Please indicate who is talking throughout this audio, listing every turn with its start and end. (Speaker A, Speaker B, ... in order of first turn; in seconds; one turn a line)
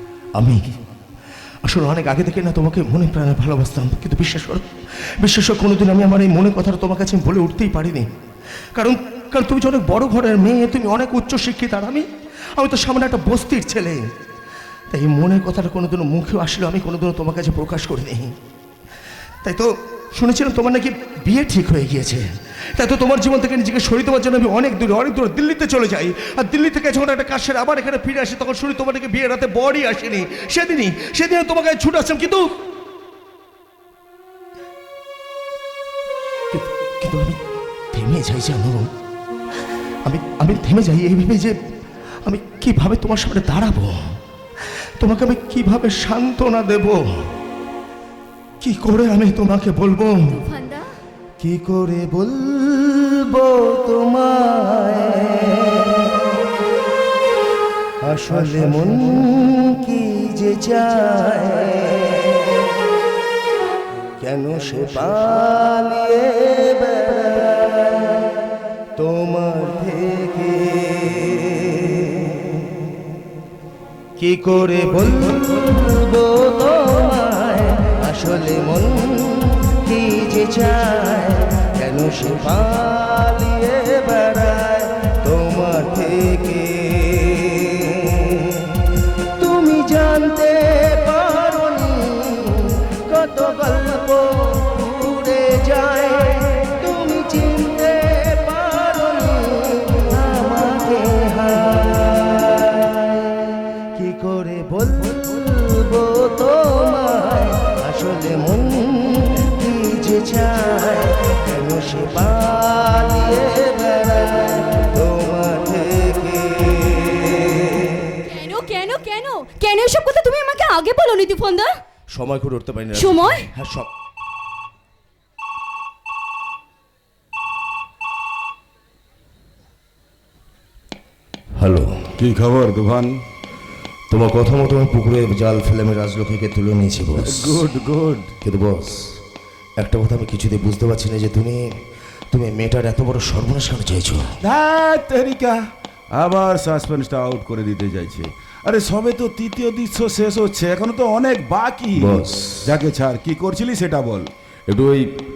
Speaker A: 0.4-0.8
Speaker A: 1.6-4.7
Speaker A: 5.2-8.1
Speaker A: 8.8-12.1
Speaker A: 12.6-14.1
Speaker A: 14.9-18.3
Speaker A: 19.4-22.2
Speaker A: 22.8-32.6
Speaker A: 36.5-37.4
Speaker A: 37.9-38.9
Speaker A: 40.0-41.6
Speaker A: 42.2-44.0
Speaker A: 45.0-47.0
Speaker A: 48.6-50.3
Speaker B: 50.3-50.9
Speaker A: 51.4-56.2
Speaker A: 58.1-62.6
Speaker C: 58.4-59.0
Speaker A: 64.2-68.2
Speaker A: 69.0-72.7
Speaker A: 74.2-88.6
Speaker A: 89.4-103.4
Speaker A: 104.0-118.1
Speaker B: 118.3-121.7
Speaker A: 122.2-123.9
Speaker B: 123.0-123.5
Speaker A: 131.6-132.0
Speaker C: 132.2-133.1
Speaker A: 134.1-137.6
Speaker C: 137.3-138.3
Speaker A: 138.4-139.1
Speaker A: 139.8-141.7
Speaker A: 142.3-144.2
Speaker C: 144.4-145.6
Speaker C: 146.2-154.3
Speaker A: 152.0-152.7
Speaker A: 154.7-155.1